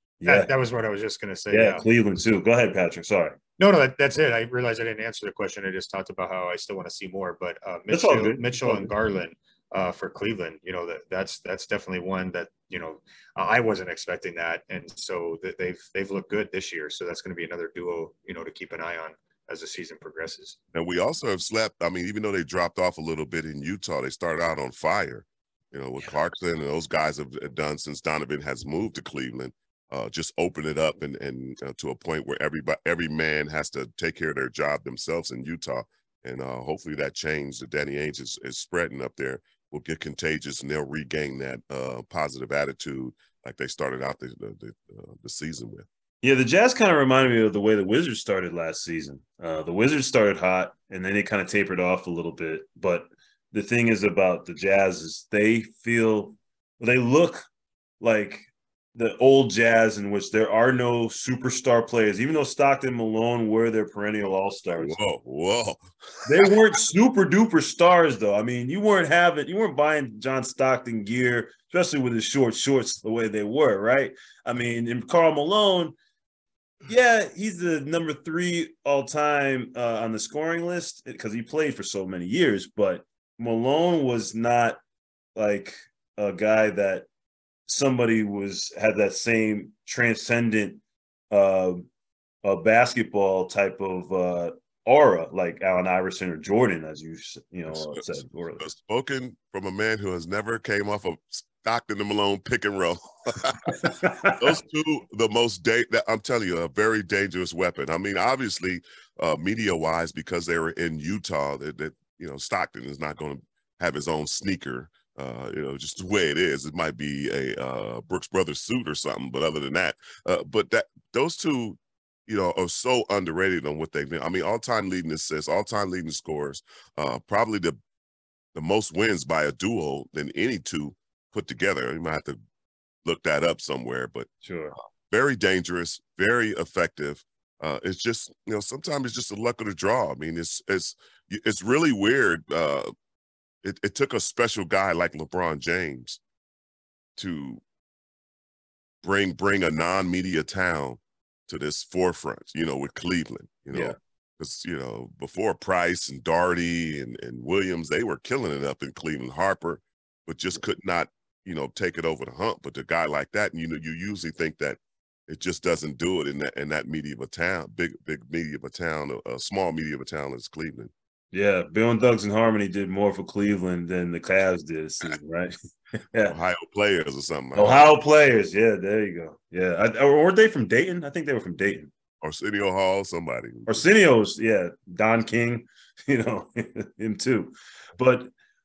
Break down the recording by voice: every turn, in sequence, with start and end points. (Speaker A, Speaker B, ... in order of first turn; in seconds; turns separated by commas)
Speaker A: 0.2-0.5, Speaker B: 0.2-1.8, Speaker A: 1.5-3.4, Speaker B: 3.6-20.6, Speaker A: 7.9-8.9, Speaker C: 20.7-45.9, Speaker A: 46.2-57.4, Speaker A: 58.0-58.4, Speaker A: 58.9-64.9, Speaker C: 64.8-66.5, Speaker A: 66.2-76.0, Speaker A: 76.9-84.8, Speaker A: 85.3-87.0, Speaker A: 87.7-91.9, Speaker A: 92.4-98.7, Speaker C: 98.6-103.8, Speaker A: 103.7-104.5, Speaker C: 104.4-127.8, Speaker C: 128.5-132.4, Speaker C: 133.0-134.3, Speaker A: 134.4-134.8, Speaker C: 135.1-142.9, Speaker C: 143.6-146.2, Speaker C: 147.2-147.6, Speaker C: 149.0-170.9, Speaker A: 153.7-153.9, Speaker A: 171.3-176.3, Speaker C: 176.3-177.8, Speaker A: 177.5-181.9, Speaker C: 182.2-183.8, Speaker A: 183.7-188.3